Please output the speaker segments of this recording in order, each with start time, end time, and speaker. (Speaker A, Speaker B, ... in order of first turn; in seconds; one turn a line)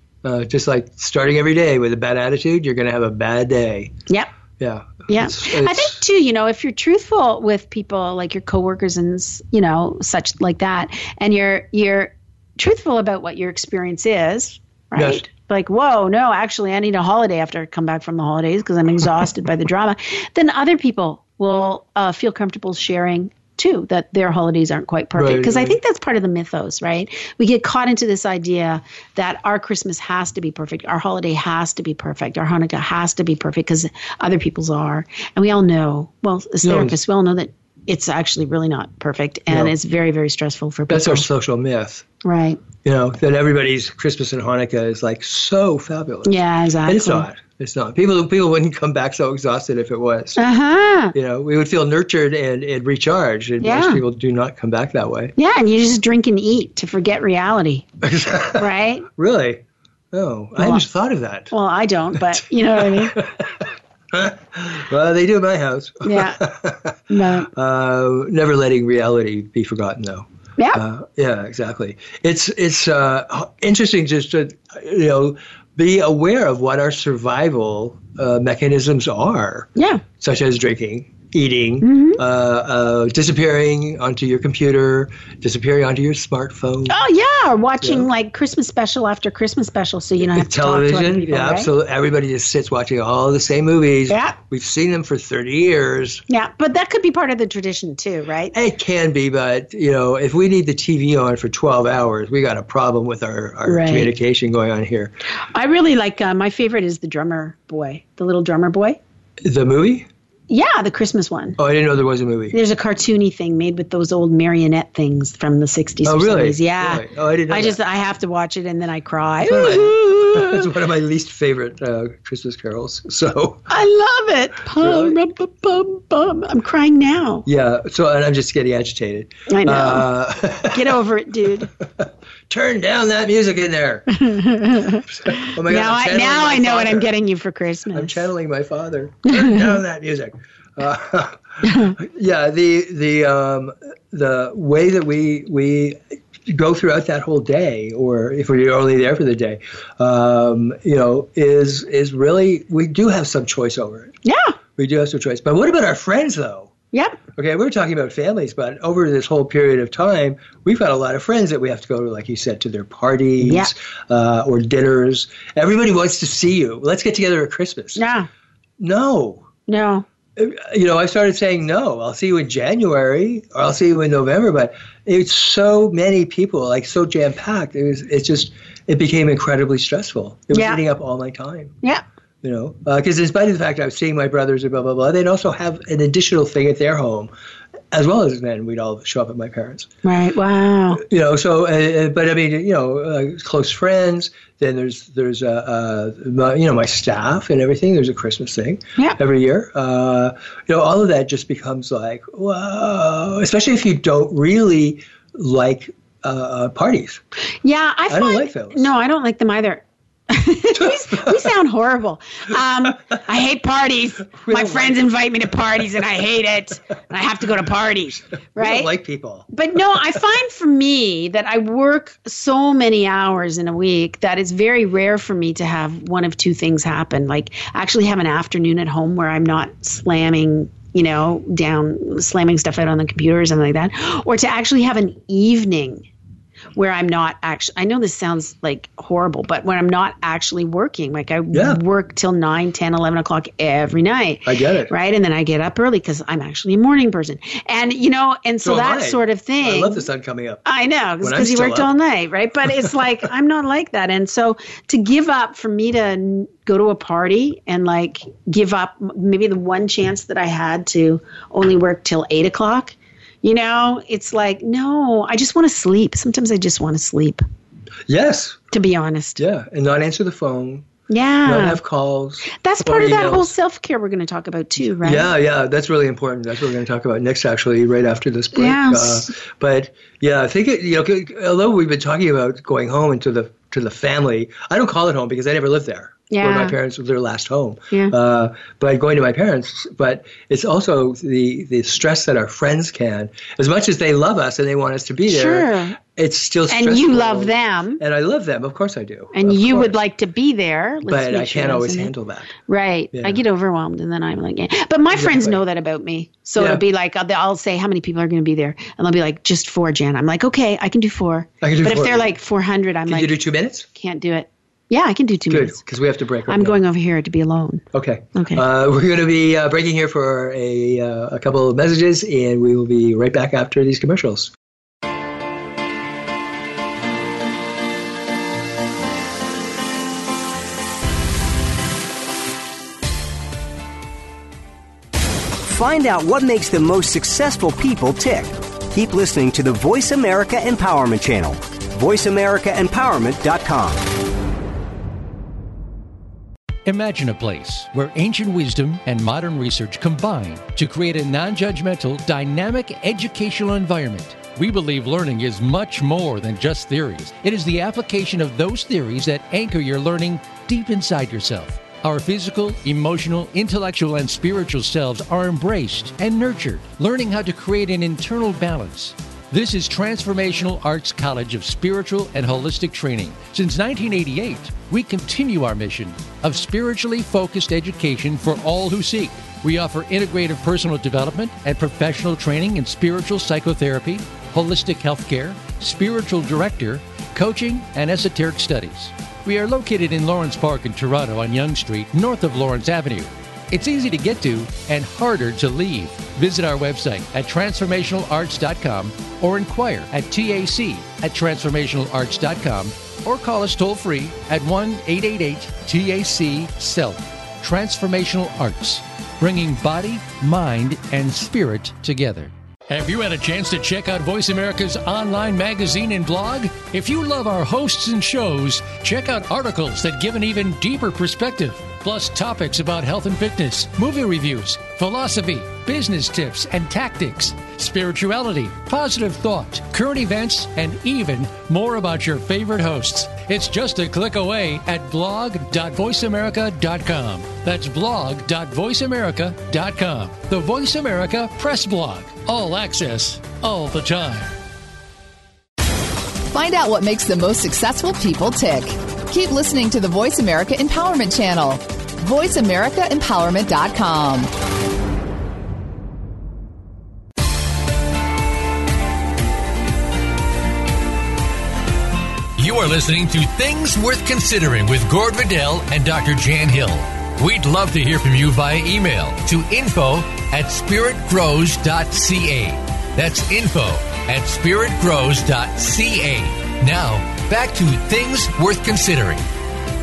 Speaker A: 0.2-4.0
Speaker A: 4.6-6.0
Speaker B: 5.1-41.3
Speaker A: 14.9-15.2
Speaker A: 25.1-25.8
Speaker A: 36.6-37.0
Speaker A: 40.9-42.0
Speaker B: 42.2-42.6
Speaker A: 42.8-50.4
Speaker B: 46.2-47.3
Speaker B: 50.4-51.1
Speaker A: 51.1-55.3
Speaker B: 53.6-54.0
Speaker B: 55.4-57.9
Speaker A: 58.0-61.5
Speaker B: 58.5-59.1
Speaker B: 60.6-60.8
Speaker B: 61.5-63.2
Speaker A: 62.1-87.0
Speaker B: 66.0-66.4
Speaker B: 67.1-67.5
Speaker B: 79.8-80.0
Speaker B: 81.8-82.2
Speaker B: 86.9-91.7
Speaker A: 87.8-88.1
Speaker A: 90.3-96.2
Speaker B: 94.1-94.3
Speaker B: 96.3-98.5
Speaker A: 98.5-105.1
Speaker B: 103.7-104.1
Speaker B: 105.5-109.0
Speaker A: 109.4-110.1
Speaker B: 110.5-111.6
Speaker A: 111.6-112.6
Speaker B: 112.5-120.7
Speaker A: 116.0-117.8
Speaker A: 119.4-123.7
Speaker B: 123.7-127.5
Speaker A: 124.8-125.2
Speaker A: 127.5-131.0
Speaker B: 129.5-130.1
Speaker B: 130.7-131.7
Speaker A: 132.0-134.2
Speaker B: 134.1-138.2
Speaker A: 135.2-137.1
Speaker A: 137.9-154.1
Speaker B: 139.3-139.8
Speaker B: 141.6-141.9
Speaker B: 154.2-154.5
Speaker A: 154.8-156.7
Speaker B: 156.9-157.2
Speaker A: 157.3-168.0
Speaker B: 163.4-163.7
Speaker B: 167.9-168.3
Speaker A: 168.8-169.5
Speaker B: 169.7-170.0
Speaker A: 170.3-181.7
Speaker B: 180.5-180.8
Speaker A: 182.4-187.3
Speaker A: 187.9-189.9
Speaker B: 190.0-191.0
Speaker A: 191.0-207.2
Speaker B: 207.6-218.9
Speaker A: 208.1-208.9
Speaker A: 210.7-211.5
Speaker A: 214.4-215.0
Speaker A: 218.6-220.0
Speaker B: 219.5-236.1
Speaker B: 236.7-250.1
Speaker A: 241.5-241.8
Speaker A: 244.4-244.9
Speaker A: 248.6-250.6
Speaker B: 250.6-267.4
Speaker A: 251.2-251.9
Speaker A: 268.1-268.6
Speaker B: 268.7-269.4
Speaker A: 269.4-270.9
Speaker B: 271.1-271.8
Speaker A: 271.4-273.5
Speaker B: 272.4-275.3
Speaker A: 275.0-299.9
Speaker B: 278.5-279.3
Speaker B: 286.3-286.8
Speaker B: 295.3-296.0
Speaker B: 296.7-298.0
Speaker B: 299.3-302.1
Speaker A: 301.1-302.5
Speaker B: 302.6-315.8
Speaker A: 303.1-303.4
Speaker A: 305.1-305.6
Speaker A: 306.6-306.8
Speaker A: 311.6-312.3
Speaker A: 313.1-313.9
Speaker A: 315.5-316.8
Speaker B: 316.5-318.6
Speaker A: 317.9-324.5
Speaker C: 335.6-344.1
Speaker D: 346.9-444.5
Speaker E: 446.5-454.5
Speaker D: 462.6-479.4